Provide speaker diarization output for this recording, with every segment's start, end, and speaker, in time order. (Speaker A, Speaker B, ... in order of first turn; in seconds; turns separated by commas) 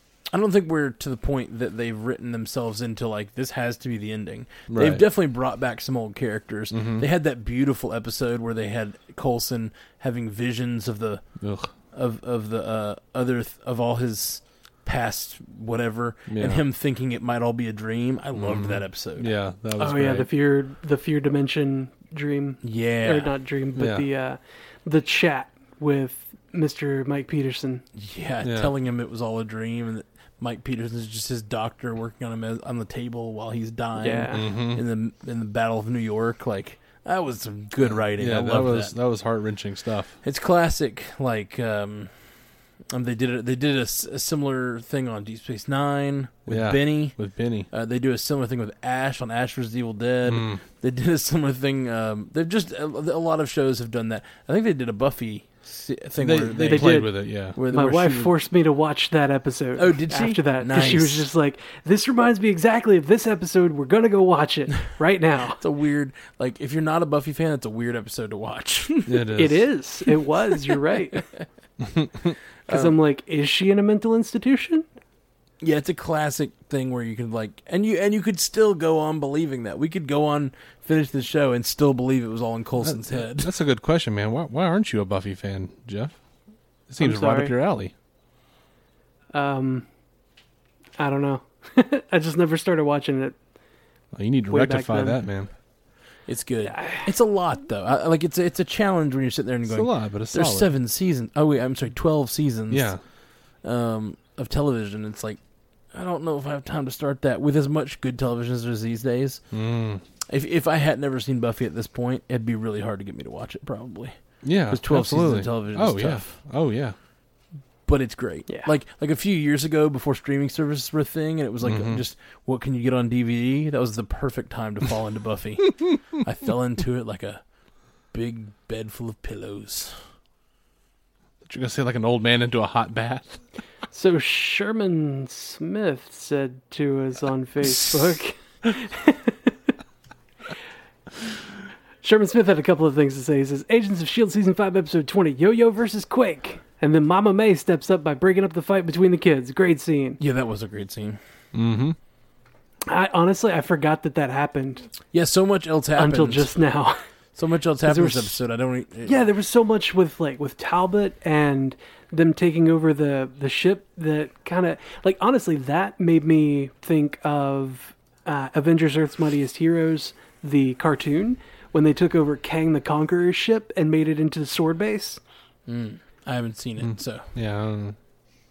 Speaker A: 0.3-11.2, Speaker B: 4.7-5.0, Speaker B: 6.7-7.0, Speaker B: 11.4-11.7, Speaker A: 11.9-19.3, Speaker B: 16.3-16.6, Speaker B: 18.4-20.3, Speaker C: 19.8-27.8, Speaker A: 22.6-23.3, Speaker B: 23.8-24.1, Speaker A: 27.9-38.9, Speaker B: 28.4-28.7, Speaker C: 34.0-34.4, Speaker B: 34.3-34.8, Speaker B: 37.8-40.2, Speaker A: 40.2-42.1, Speaker A: 42.9-47.2, Speaker B: 46.5-47.7, Speaker A: 47.7-58.3, Speaker B: 50.2-50.6, Speaker B: 56.2-57.6, Speaker C: 56.6-57.1, Speaker C: 57.7-65.6, Speaker A: 59.8-61.3, Speaker A: 65.6-69.3, Speaker B: 69.0-69.7, Speaker C: 69.3-71.2, Speaker B: 71.8-72.4, Speaker A: 72.7-72.9, Speaker C: 72.7-74.8, Speaker A: 75.6-83.5, Speaker B: 82.8-86.2, Speaker B: 86.9-87.9, Speaker C: 87.0-87.5, Speaker C: 89.3-89.8, Speaker C: 91.0-93.3, Speaker B: 94.1-95.5, Speaker C: 94.5-95.2, Speaker A: 96.3-103.0, Speaker C: 96.6-97.1, Speaker B: 99.7-100.7, Speaker B: 102.7-103.0, Speaker A: 103.6-105.4, Speaker A: 105.9-109.4, Speaker B: 109.5-110.0, Speaker A: 110.3-114.1, Speaker B: 114.4-116.9, Speaker A: 114.7-116.3, Speaker A: 117.9-127.4, Speaker B: 121.6-122.0, Speaker A: 128.1-129.9, Speaker B: 131.4-133.4, Speaker C: 133.9-139.5, Speaker C: 142.0-150.2, Speaker A: 150.2-151.2, Speaker B: 151.5-152.0, Speaker C: 152.9-154.9, Speaker A: 155.1-156.5, Speaker C: 155.9-157.0, Speaker A: 157.3-159.2, Speaker C: 157.8-158.4, Speaker C: 159.0-175.2, Speaker A: 175.7-177.3, Speaker B: 176.8-178.0